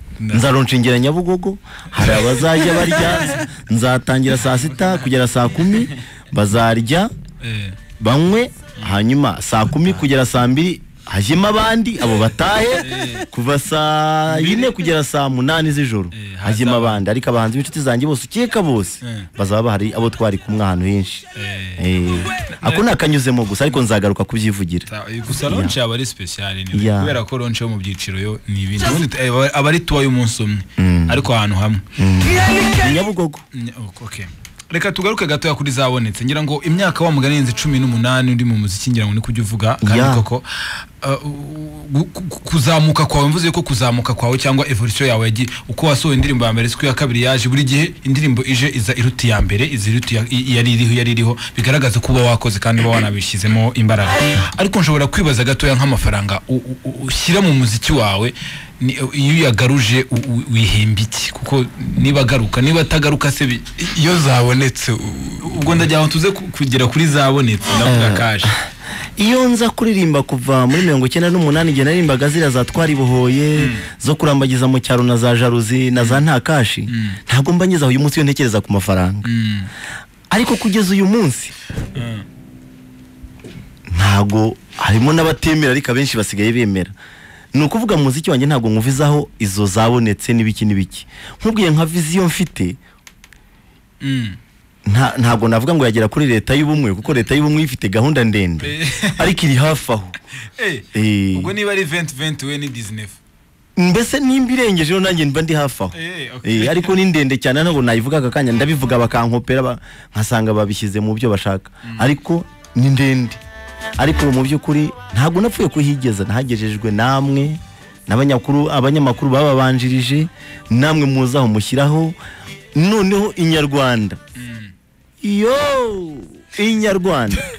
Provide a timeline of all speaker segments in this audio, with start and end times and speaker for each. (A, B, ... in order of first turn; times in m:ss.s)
0:00.2-0:00.5 A
0:00.3-0:07.1 B
0:02.0-0:03.3 A
0:07.4-0:07.8 A
0:08.0-0:21.2 B
0:12.8-0:13.3 A
0:14.3-0:14.8 A
0:16.1-0:17.0 A
0:19.0-0:19.3 A
0:21.4-0:21.8 A
0:21.8-0:24.9 B
0:22.4-0:22.8 A
0:24.9-0:31.8 A
0:25.4-0:25.8 B
0:26.7-0:27.2 B
0:30.8-0:31.3 B
0:32.0-0:33.4 B
0:33.5-0:40.5 A
0:39.8-0:40.3 B
0:41.0-1:08.5 A
1:07.8-1:19.3 B
1:13.6-1:13.8 A
1:16.0-1:16.2 A
1:19.2-1:19.7 A
1:20.3-1:21.5 B
1:22.0-1:22.3 A
1:23.9-1:26.9 B
1:27.5-1:32.8 B
1:34.0-1:34.4 A
1:34.9-1:40.2 B
1:38.6-1:39.3 A
1:40.6-1:43.2 A
1:40.9-1:41.5 B
1:43.8-1:53.4 B
1:45.9-1:46.9 A
1:54.0-2:02.2 B
2:02.8-2:04.2 B
2:04.4-2:04.7 A
2:05.2-2:07.4 B